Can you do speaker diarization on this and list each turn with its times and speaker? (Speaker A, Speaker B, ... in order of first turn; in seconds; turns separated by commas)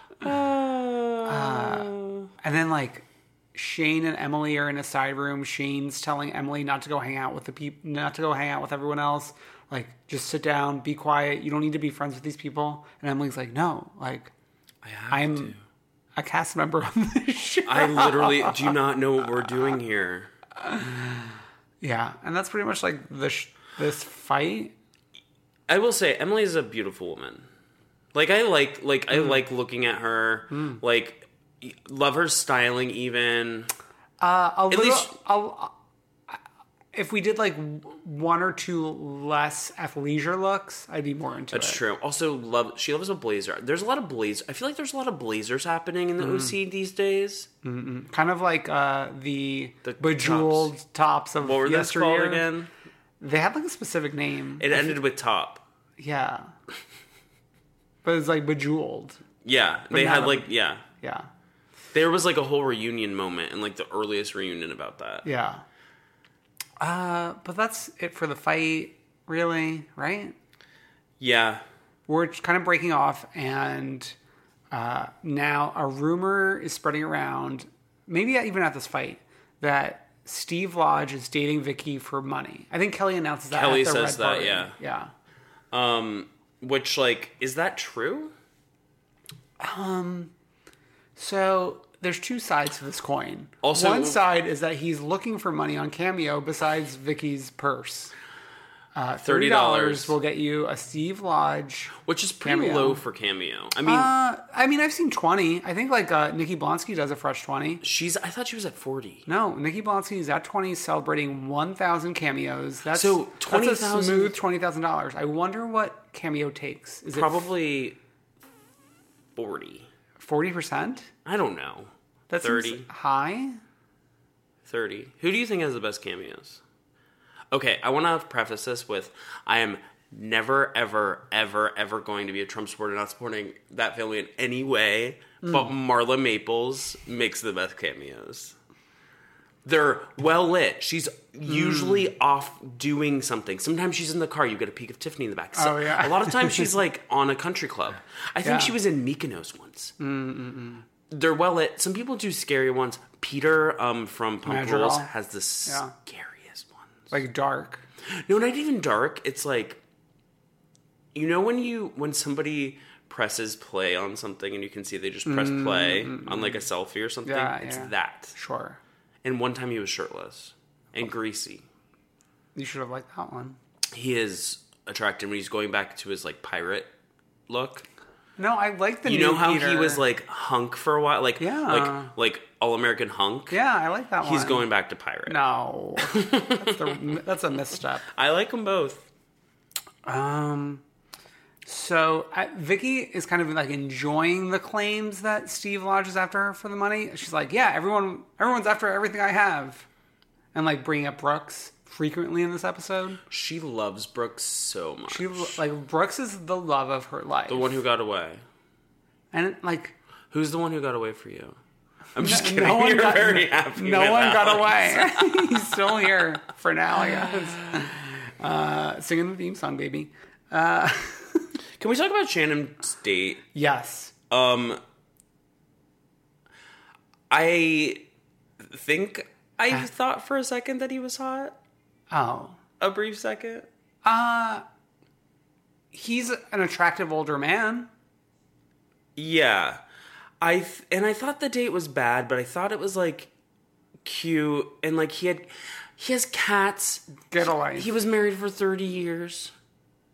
Speaker A: 0.2-2.3, Speaker B: 1.2-14.3, Speaker A: 14.8-15.6, Speaker B: 15.1-15.5, Speaker B: 16.1-18.5, Speaker A: 17.7-20.3, Speaker B: 20.6-24.7, Speaker A: 25.7-27.4, Speaker A: 28.1-33.7, Speaker B: 30.5-30.8, Speaker B: 34.2-35.7, Speaker A: 34.7-35.1, Speaker B: 36.9-41.8, Speaker A: 41.5-47.5, Speaker B: 46.2-46.5, Speaker B: 47.6-52.4, Speaker A: 49.8-50.7, Speaker A: 51.4-52.7, Speaker B: 53.2-54.9, Speaker A: 54.6-55.6, Speaker B: 56.0-56.5, Speaker B: 58.0-59.2, Speaker A: 59.4-60.8, Speaker B: 59.9-61.3, Speaker A: 61.9-65.2, Speaker B: 65.2-65.6, Speaker B: 66.8-70.3, Speaker A: 71.2-71.6, Speaker B: 72.1-74.1, Speaker B: 74.7-85.1, Speaker A: 83.5-84.7, Speaker A: 85.7-88.3, Speaker B: 89.6-90.3, Speaker B: 91.2-98.1, Speaker A: 93.6-94.2, Speaker B: 98.9-103.0, Speaker A: 99.2-100.2, Speaker A: 102.0-104.1, Speaker B: 103.8-107.8, Speaker A: 107.8-109.3, Speaker B: 109.2-117.5, Speaker A: 112.9-114.3, Speaker A: 117.1-118.0, Speaker A: 119.3-119.9, Speaker B: 120.2-121.1, Speaker A: 121.2-122.9, Speaker B: 122.3-123.6, Speaker A: 124.7-126.6, Speaker A: 127.5-138.5, Speaker B: 135.4-135.7, Speaker A: 139.6-149.9, Speaker B: 141.5-142.1, Speaker B: 145.6-146.7, Speaker B: 148.4-148.7, Speaker B: 150.0-150.8, Speaker A: 151.1-157.1, Speaker B: 154.4-155.1, Speaker B: 155.7-155.9, Speaker B: 157.1-157.8, Speaker A: 158.1-159.8, Speaker A: 161.1-168.3, Speaker B: 165.2-166.6, Speaker B: 167.2-168.8, Speaker A: 169.2-171.6, Speaker B: 172.5-173.6, Speaker A: 173.9-176.9, Speaker A: 177.5-177.8, Speaker B: 178.4-180.0, Speaker A: 179.0-183.6, Speaker B: 181.4-182.1, Speaker B: 183.5-184.6, Speaker A: 184.2-185.4, Speaker B: 185.3-188.1, Speaker A: 186.0-187.0, Speaker A: 188.1-189.1, Speaker B: 190.0-190.8, Speaker B: 191.6-199.9, Speaker B: 200.5-203.2, Speaker A: 203.3-205.6, Speaker B: 205.1-207.8, Speaker A: 207.5-208.4, Speaker B: 209.3-209.9, Speaker A: 210.3-211.6, Speaker A: 212.1-215.6, Speaker B: 212.2-221.5, Speaker A: 221.8-223.4, Speaker B: 223.5-224.1, Speaker A: 224.3-224.8, Speaker A: 227.3-228.0, Speaker A: 228.6-231.6, Speaker B: 232.1-232.6, Speaker A: 232.8-233.7, Speaker B: 234.0-234.6, Speaker B: 235.9-237.9, Speaker A: 239.2-239.8, Speaker A: 240.4-243.3, Speaker A: 244.0-249.5, Speaker B: 247.3-247.9